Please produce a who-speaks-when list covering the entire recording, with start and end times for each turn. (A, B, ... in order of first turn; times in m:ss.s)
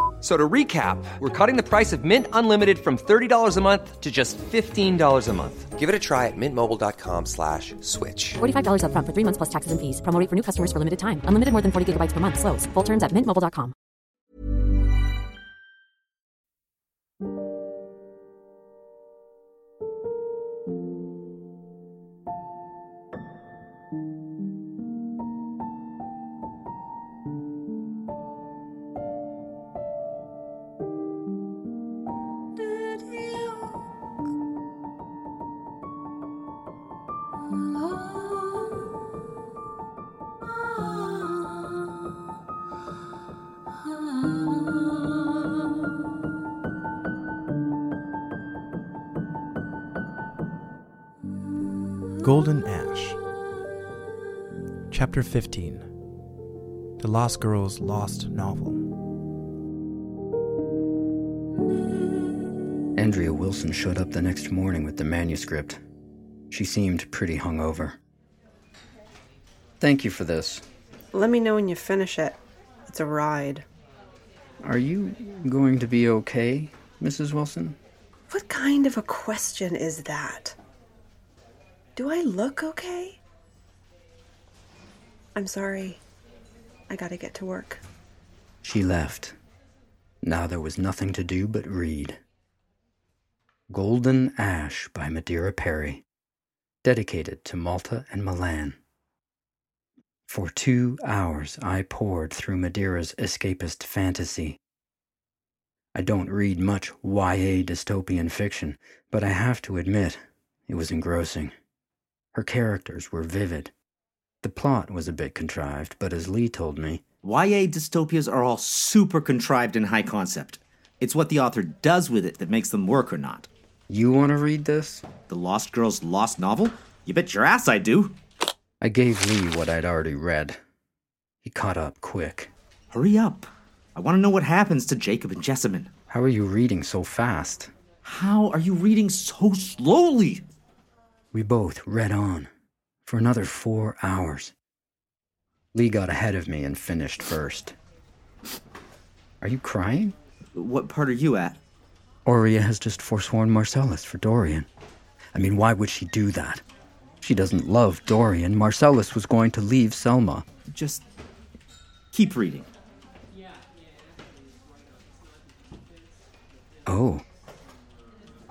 0:00.2-0:08.4 A
0:08.4-0:13.7 B
0:52.2-0:53.2 C
0:54.9-0:55.9 C
0:57.0-0:58.9 C
1:03.0-1:05.8 D
1:06.5-1:08.0 D
1:09.8-1:10.6 D
1:11.1-1:13.6 E
1:14.6-1:17.8 D
1:18.3-1:20.6 E
1:22.0-1:23.2 E
1:25.4-1:26.0 E
1:26.9-1:27.8 E
1:28.6-1:29.4 D
1:30.2-1:32.2 D
1:33.7-1:36.0 D
1:36.8-1:38.8 D
1:40.3-1:44.6 D
1:46.0-1:51.5 D
1:52.3-1:53.7 D
1:54.4-1:57.0 D
1:57.2-2:03.5 F
2:03.9-2:05.0 D
2:05.3-2:08.2 F
2:08.8-2:10.6 D
2:11.4-2:12.5 D
2:12.9-2:15.9 F
2:16.1-2:17.7 D
2:18.0-2:20.4 F
2:21.3-2:22.5 D
2:23.1-2:24.5 D
2:25.7-2:27.8 D
2:29.4-2:30.2 D
2:30.6-2:31.6 F
2:32.2-2:34.7 D
2:35.4-2:36.6 D
2:37.2-2:40.4 D
2:40.7-2:41.0 F
2:42.1-2:42.7 F
2:46.9-2:47.2 D